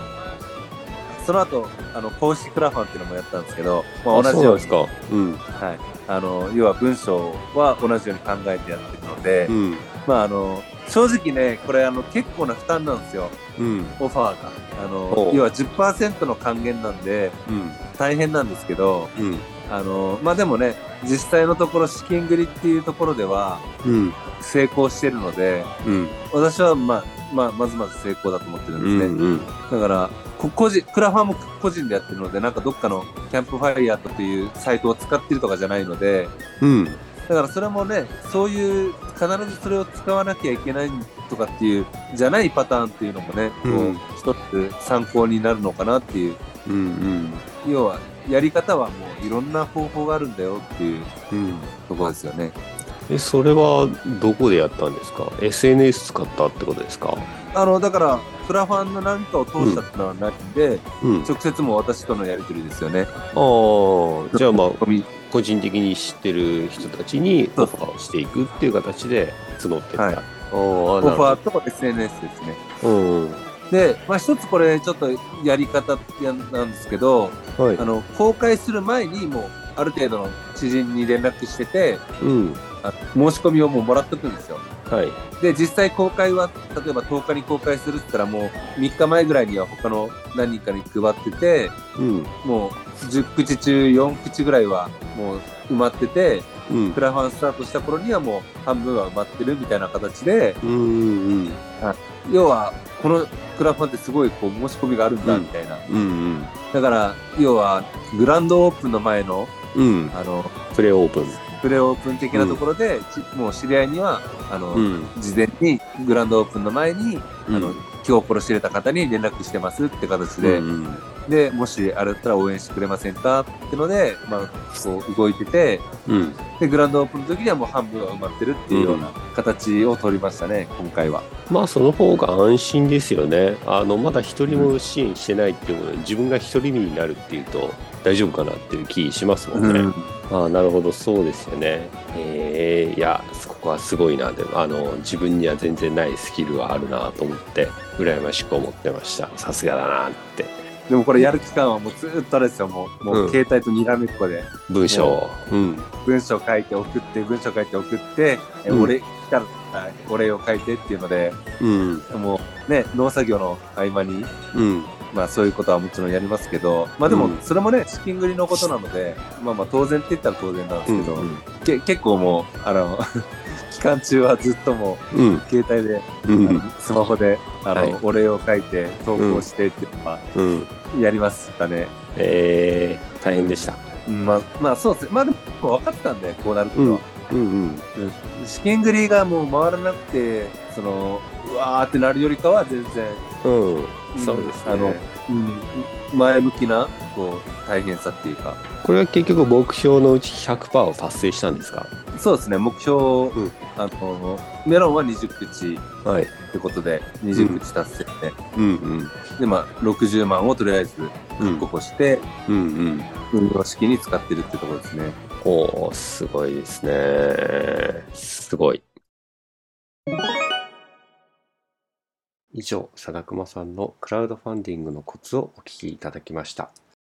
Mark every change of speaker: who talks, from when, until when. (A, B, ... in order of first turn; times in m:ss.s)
0:01.1-0:04.8 A
0:04.1-0:05.4 B
0:05.6-0:09.5 A
0:09.5-0:09.9 B
0:10.1-0:13.4 A
0:13.6-0:14.0 B
0:14.0-0:17.4 A
0:15.1-0:15.5 B
0:17.5-0:17.8 B
0:18.0-0:19.1 A
0:19.2-0:19.5 B
0:19.7-0:23.6 A
0:23.8-0:24.2 B
0:24.4-0:25.7 A
0:25.8-0:26.2 B
0:26.3-0:29.2 A
0:28.8-0:29.5 B
0:29.7-0:36.3 A
0:36.6-0:37.0 B
0:37.3-0:46.4 A
0:43.6-0:44.0 B
0:46.7-0:47.4 B
0:47.6-0:51.1 A
0:51.3-0:51.7 B
0:51.9-0:52.6 A
0:53.1-0:57.3 B
0:57.5-1:03.1 A
0:59.6-0:59.8 B
1:01.0-1:01.3 B
1:03.3-1:11.4 B
1:04.3-1:05.1 A
1:11.0-1:12.6 A
1:12.8-1:13.5 B
1:13.7-1:22.0 A
1:17.6-1:17.8 B
1:22.2-1:22.6 B
1:22.8-1:24.6 A
1:24.9-1:25.2 B
1:25.4-1:31.7 A
1:32.0-1:32.3 B
1:32.4-1:40.6 A
1:36.7-1:37.0 B
1:40.6-1:41.6 B
1:41.8-1:45.8 A
1:45.2-1:46.5 B
1:46.7-1:49.5 A
1:49.7-1:50.2 B
1:50.1-1:50.5 A
1:50.7-1:51.4 B
1:51.5-2:00.7 A
1:52.3-1:52.6 B
1:54.7-1:55.1 B
1:57.5-1:57.8 B
2:00.4-2:01.0 B
2:01.3-2:05.8 A
2:06.1-2:06.4 B
2:06.6-2:11.3 A
2:08.7-2:09.1 B
2:11.5-2:30.6 B
2:14.5-2:14.7 A
2:19.5-2:20.1 A
2:30.9-2:35.2 A
2:33.1-2:33.4 B
2:34.7-2:35.9 B
2:36.1-2:41.4 A
2:38.7-2:38.9 B
2:41.6-2:42.1 B
2:42.1-2:44.3 A
2:44.5-2:44.9 B
2:45.1-2:53.0 A
2:47.1-2:47.4 B
2:50.9-2:51.4 B
2:53.7-3:00.2 A
2:55.1-2:55.4 B
2:56.2-2:56.6 B
2:59.2-2:59.5 B
3:00.4-3:00.7 B
3:00.9-3:01.9 A
3:02.2-3:03.8 B
3:03.3-3:07.0 A
3:06.8-3:07.9 B
3:08.0-3:13.2 A
3:13.4-3:15.0 B
3:14.1-3:18.6 A
3:18.8-3:21.9 B
3:22.1-3:25.8 A
3:26.0-3:26.3 B
3:26.5-3:28.3 A
3:27.3-3:27.6 B
3:28.6-3:29.1 B
3:29.4-3:32.3 A
3:31.4-3:31.7 B
3:32.5-3:33.1 B
3:33.3-3:35.2 A
3:35.4-3:38.9 B
3:42.5-3:46.7 B